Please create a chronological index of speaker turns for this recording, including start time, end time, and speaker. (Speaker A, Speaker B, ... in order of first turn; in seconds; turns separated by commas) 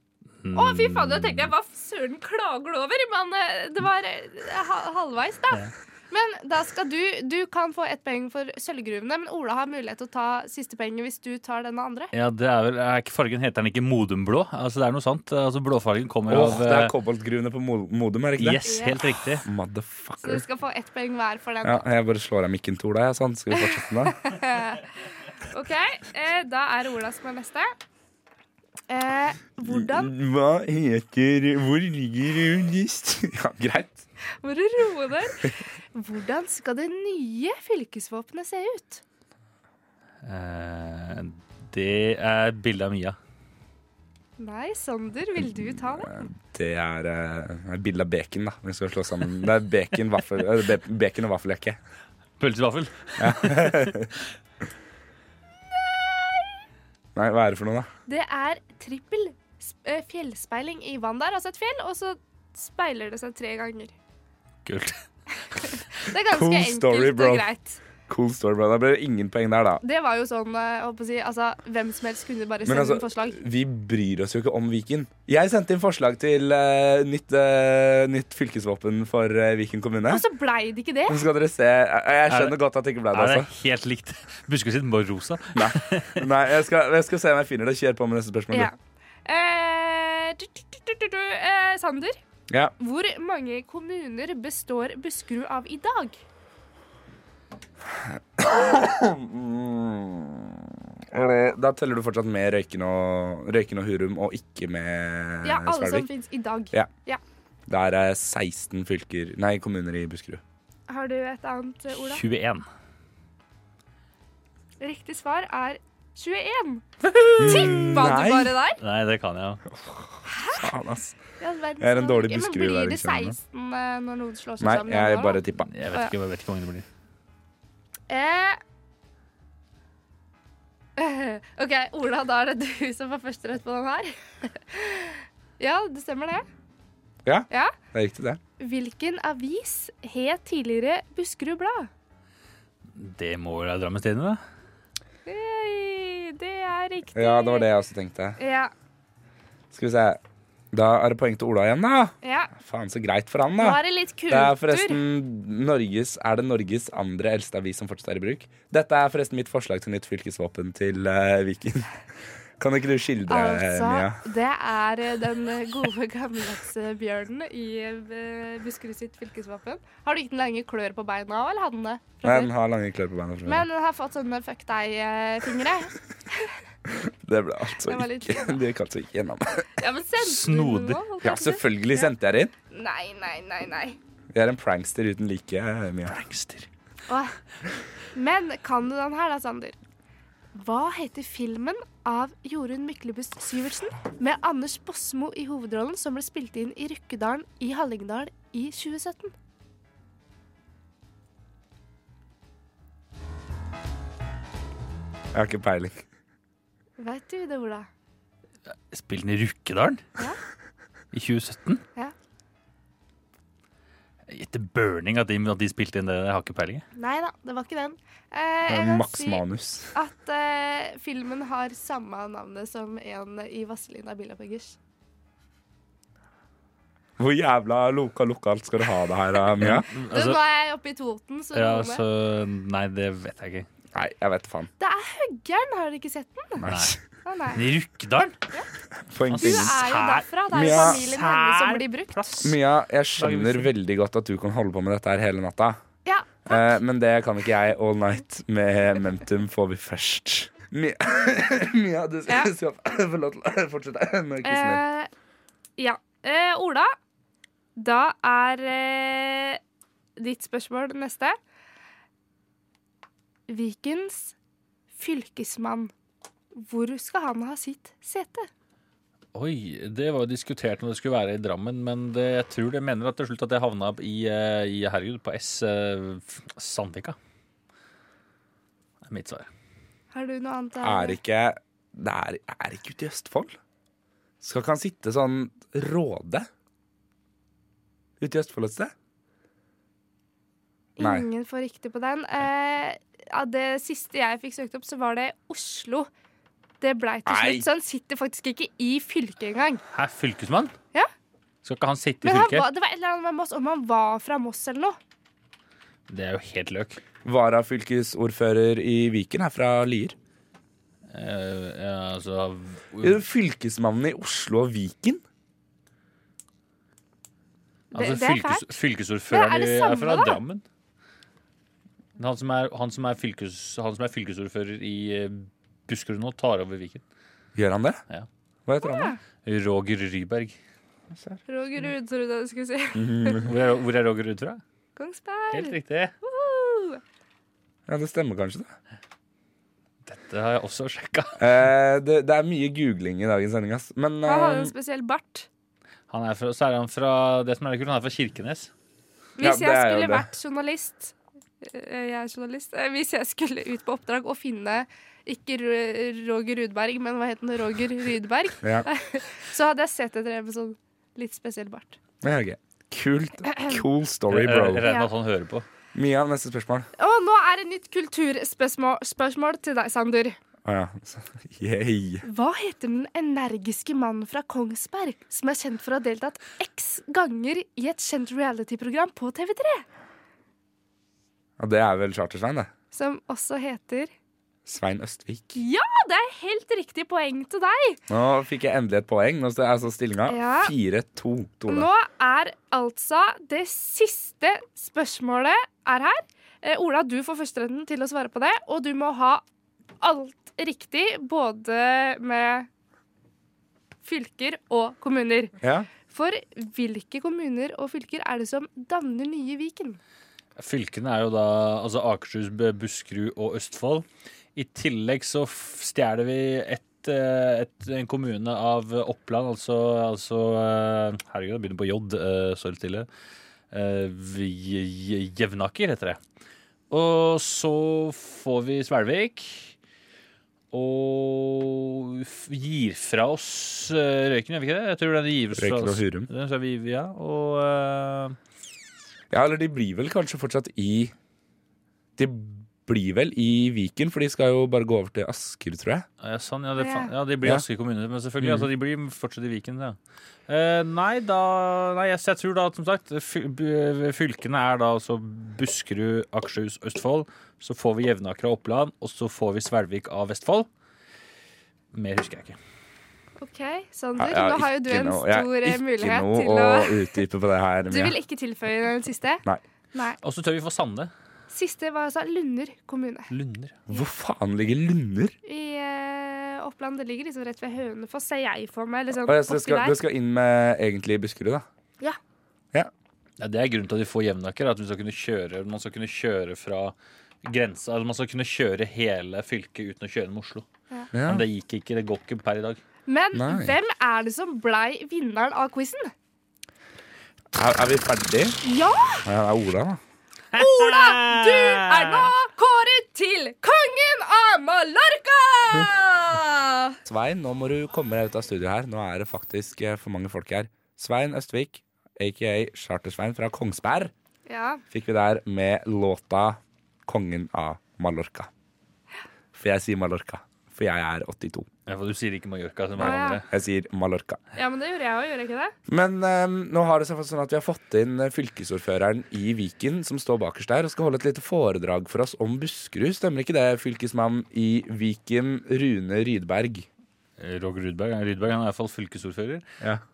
Speaker A: 0.4-1.5, Speaker B: 0.5-12.1, Speaker A: 12.1-16.9, Speaker C: 16.3-18.7, Speaker A: 18.4-19.4, Speaker B: 18.7-19.0, Speaker C: 19.4-20.4, Speaker B: 20.2-21.9, Speaker C: 21.6-24.1, Speaker B: 23.5-24.8, Speaker B: 25.5-27.7, Speaker B: 28.9-30.1, Speaker C: 29.6-34.0, Speaker B: 34.4-39.0, Speaker A: 40.2-43.2, Speaker B: 44.4-46.2, Speaker C: 45.5-51.8, Speaker A: 52.4-54.0, Speaker C: 53.2-54.1, Speaker B: 55.8-56.6, Speaker C: 57.1-57.9, Speaker B: 58.1-63.9, Speaker A: 64.6-65.0, Speaker B: 65.5-67.8, Speaker C: 66.3-67.5, Speaker C: 68.1-69.8, Speaker B: 69.8-73.4, Speaker C: 72.6-80.2, Speaker B: 80.1-81.2, Speaker C: 81.1-83.5, Speaker A: 82.3-82.5, Speaker A: 83.1-86.2, Speaker C: 85.5-88.7, Speaker B: 88.5-92.2, Speaker C: 92.5-92.7, Speaker B: 92.8-96.2, Speaker C: 97.9-106.1, Speaker B: 105.4-107.2, Speaker C: 107.7-110.4, Speaker B: 110.9-112.2, Speaker A: 111.9-112.6, Speaker B: 114.8-116.8, Speaker A: 117.0-117.9, Speaker C: 117.4-118.5, Speaker B: 117.4-118.8, Speaker A: 118.8-119.6, Speaker C: 119.7-121.2, Speaker B: 120.2-120.7, Speaker B: 121.4-126.1, Speaker C: 121.8-123.4, Speaker C: 124.6-125.7, Speaker A: 125.6-126.8, Speaker B: 128.1-128.6, Speaker B: 130.9-136.4, Speaker C: 137.2-138.4, Speaker B: 138.6-141.9, Speaker A: 142.9-144.4, Speaker B: 145.2-147.7, Speaker C: 147.1-148.4, Speaker B: 148.4-148.7, Speaker C: 149.7-150.2, Speaker C: 150.7-161.9, Speaker B: 152.2-152.5, Speaker B: 153.6-155.0, Speaker C: 162.6-164.2, Speaker B: 163.3-172.5, Speaker C: 172.2-173.7, Speaker B: 173.4-176.5, Speaker C: 176.9-179.7, Speaker B: 177.8-178.6, Speaker B: 179.8-182.1, Speaker A: 180.2-181.0, Speaker C: 181.2-182.5, Speaker B: 182.7-184.0, Speaker C: 184.3-186.2, Speaker A: 186.1-186.7, Speaker B: 187.1-187.3, Speaker B: 188.1-189.8, Speaker B: 190.5-199.3, Speaker C: 205.3-206.0, Speaker B: 207.0-207.9, Speaker A: 208.9-210.0, Speaker A: 211.1-211.8, Speaker A: 214.3-216.8, Speaker B: 216.9-224.8, Speaker C: 218.7-219.9, Speaker C: 227.2-229.9, Speaker A: 229.6-230.4, Speaker B: 230.1-232.0, Speaker A: 231.5-233.7, Speaker C: 233.9-234.7, Speaker B: 234.8-236.6, Speaker C: 236.6-237.0, Speaker A: 236.7-237.0, Speaker B: 237.2-237.6, Speaker A: 237.5-238.4, Speaker C: 239.1-239.8, Speaker A: 239.2-242.5, Speaker B: 239.4-242.5, Speaker C: 240.5-241.0, Speaker C: 242.4-245.8, Speaker A: 243.2-243.7, Speaker B: 246.1-246.8, Speaker C: 246.4-254.8, Speaker B: 254.4-255.1, Speaker B: 255.8-256.9, Speaker B: 257.8-259.6, Speaker B: 260.1-261.4, Speaker B: 263.5-264.3, Speaker B: 264.9-265.9, Speaker B: 266.5-268.5, Speaker A: 269.3-277.2, Speaker A: 279.0-279.5, Speaker B: 280.1-281.2, Speaker C: 280.8-283.6, Speaker C: 284.4-286.5, Speaker C: 288.2-288.9, Speaker B: 291.0-296.1, Speaker C: 291.0-291.2, Speaker B: 296.8-299.8, Speaker C: 297.2-297.6, Speaker A: 299.9-300.7, Speaker A: 301.6-302.6, Speaker B: 302.2-305.0, Speaker A: 306.1-307.0, Speaker C: 307.2-310.1, Speaker A: 311.1-313.2, Speaker C: 313.0-315.2, Speaker A: 317.9-320.6, Speaker B: 317.9-318.7, Speaker B: 319.3-320.4, Speaker A: 322.2-327.0, Speaker C: 327.5-328.0, Speaker C: 328.6-329.1, Speaker B: 328.8-329.2, Speaker A: 329.4-330.6, Speaker C: 331.1-331.4, Speaker B: 331.5-333.4, Speaker C: 332.9-333.5, Speaker A: 333.4-334.6, Speaker B: 334.9-337.0, Speaker A: 335.5-336.1, Speaker C: 337.9-338.7, Speaker A: 340.1-341.5, Speaker C: 341.4-344.7, Speaker B: 344.2-345.5, Speaker A: 346.1-348.7, Speaker B: 349.4-362.0, Speaker C: 349.4-350.3, Speaker C: 358.6-358.9, Speaker C: 362.2-364.9, Speaker B: 363.5-363.8, Speaker A: 364.3-365.6, Speaker C: 365.9-366.9, Speaker B: 367.0-370.4, Speaker C: 370.6-372.2, Speaker B: 372.2-379.8, Speaker C: 381.6-382.7, Speaker B: 382.9-384.1, Speaker C: 384.6-385.6, Speaker B: 385.6-388.0, Speaker C: 388.1-391.9, Speaker B: 390.3-390.7, Speaker B: 391.7-399.4, Speaker B: 400.0-402.7, Speaker B: 404.0-405.5, Speaker C: 405.6-405.9, Speaker B: 406.1-410.0, Speaker A: 410.6-414.0, Speaker A: 414.6-423.1, Speaker A: 423.7-426.2, Speaker A: 426.9-429.7, Speaker A: 430.7-438.4, Speaker C: 435.5-436.3, Speaker C: 439.3-441.1, Speaker C: 442.2-446.1, Speaker A: 446.2-450.0, Speaker B: 446.8-447.1, Speaker C: 448.4-448.7, Speaker A: 450.5-460.7, Speaker A: 461.9-462.6, Speaker B: 463.4-467.2, Speaker C: 464.2-468.1, Speaker B: 467.9-469.4, Speaker A: 470.2-471.1, Speaker B: 471.5-473.3, Speaker A: 473.3-473.8, Speaker C: 473.9-475.3, Speaker B: 475.4-480.0, Speaker C: 479.2-481.6, Speaker A: 483.4-490.6, Speaker C: 491.1-491.4, Speaker A: 491.2-492.8, Speaker B: 493.1-496.1, Speaker C: 493.3-493.7, Speaker C: 497.5-498.6, Speaker B: 498.6-499.2, Speaker C: 499.2-500.0, Speaker A: 500.5-502.3, Speaker B: 500.5-507.0, Speaker C: 507.0-514.1, Speaker B: 514.5-514.8, Speaker C: 514.9-518.5, Speaker C: 519.5-521.7, Speaker A: 521.9-523.5, Speaker C: 523.0-524.4, Speaker B: 523.0-523.4, Speaker B: 524.5-525.7, Speaker C: 525.9-536.9, Speaker A: 537.4-539.6